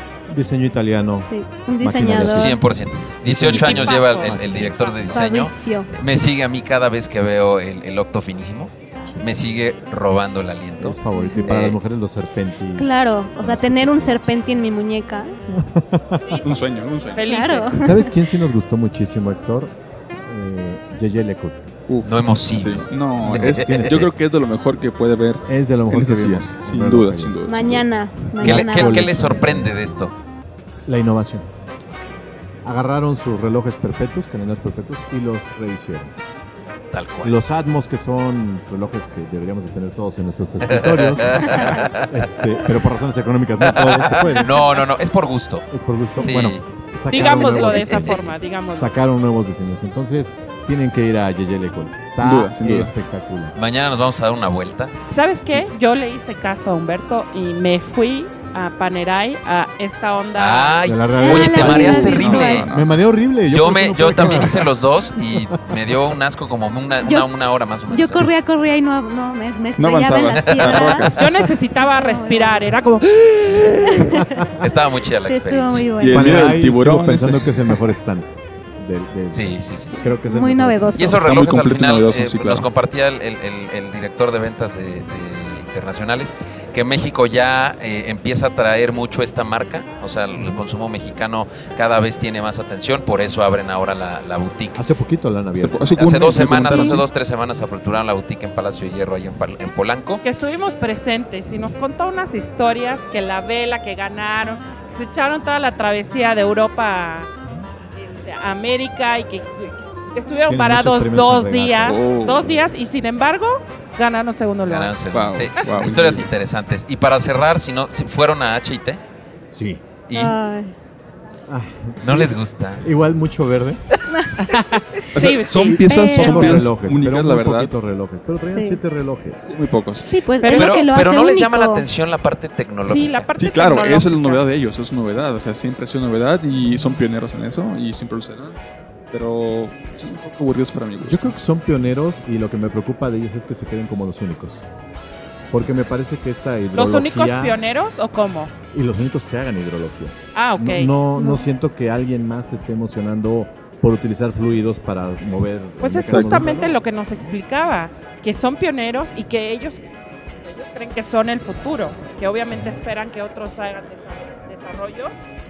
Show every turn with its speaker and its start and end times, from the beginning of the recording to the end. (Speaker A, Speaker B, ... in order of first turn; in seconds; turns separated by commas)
Speaker A: 0.3-2.6, Speaker B: 1.2-2.6, Speaker C: 2.2-11.8, Speaker A: 3.2-5.0, Speaker D: 3.5-3.8, Speaker E: 3.6-5.2, Speaker B: 5.1-5.9, Speaker A: 10.8-14.4, Speaker B: 11.1-11.5, Speaker B: 12.7-15.3, Speaker A: 15.5-16.4, Speaker E: 16.2-17.8, Speaker D: 16.4-17.3, Speaker B: 17.3-18.1, Speaker A: 17.7-19.7, Speaker A: 20.2-21.7, Speaker D: 21.9-27.9, Speaker C: 22.0-24.0, Speaker A: 23.2-24.1, Speaker A: 25.5-27.4, Speaker B: 27.4-29.4, Speaker A: 28.4-30.1, Speaker C: 28.4-30.1, Speaker A: 30.9-31.5, Speaker A: 32.6-36.1, Speaker C: 36.9-37.4, Speaker A: 37.2-44.6, Speaker C: 40.6-42.1, Speaker B: 41.3-41.9, Speaker C: 43.6-45.6, Speaker A: 45.7-53.5, Speaker C: 46.2-46.6, Speaker E: 47.1-48.9, Speaker C: 47.1-48.2, Speaker D: 52.2-52.9, Speaker C: 53.5-54.9, Speaker E: 55.1-60.9, Speaker C: 60.4-62.7, Speaker A: 60.8-65.5, Speaker B: 61.2-62.6, Speaker D: 61.5-62.9, Speaker C: 63.5-68.3, Speaker B: 67.0-67.3, Speaker B: 67.9-72.7, Speaker D: 69.8-71.3, Speaker C: 70.3-71.3, Speaker E: 71.0-73.5, Speaker B: 73.7-74.5, Speaker A: 74.4-74.6, Speaker C: 74.6-75.9, Speaker B: 75.2-76.3, Speaker D: 76.0-77.9, Speaker A: 76.0-81.2, Speaker C: 79.3-80.1, Speaker B: 80.0-81.2, Speaker C: 81.0-94.8, Speaker D: 81.1-82.7, Speaker A: 94.8-97.0, Speaker D: 95.5-97.0, Speaker C: 95.9-100.2, Speaker E: 100.2-107.3, Speaker E: 107.9-115.0, Speaker A: 110.5-112.6, Speaker D: 111.8-112.5, Speaker C: 114.7-119.0, Speaker D: 115.1-116.3, Speaker A: 119.5-119.8, Speaker C: 120.1-120.3, Speaker B: 120.1-120.7, Speaker A: 121.5-123.8, Speaker C: 122.0-122.8, Speaker E: 124.4-126.3, Speaker D: 125.1-127.7, Speaker B: 125.9-126.7, Speaker A: 126.1-129.6, Speaker B: 128.4-128.8, Speaker D: 129.5-130.1, Speaker B: 130.0-131.8, Speaker E: 130.4-130.9, Speaker C: 130.5-133.3, Speaker E: 132.8-134.5, Speaker D: 133.3-138.6, Speaker D: 139.1-141.3, Speaker A: 141.0-144.6, Speaker A: 145.5-147.6, Speaker E: 146.7-148.5, Speaker A: 148.7-156.8, Speaker E: 150.3-150.9, Speaker B: 151.2-151.4, Speaker E: 155.8-159.9, Speaker D: 156.1-156.4, Speaker E: 160.4-165.1, Speaker A: 162.5-162.8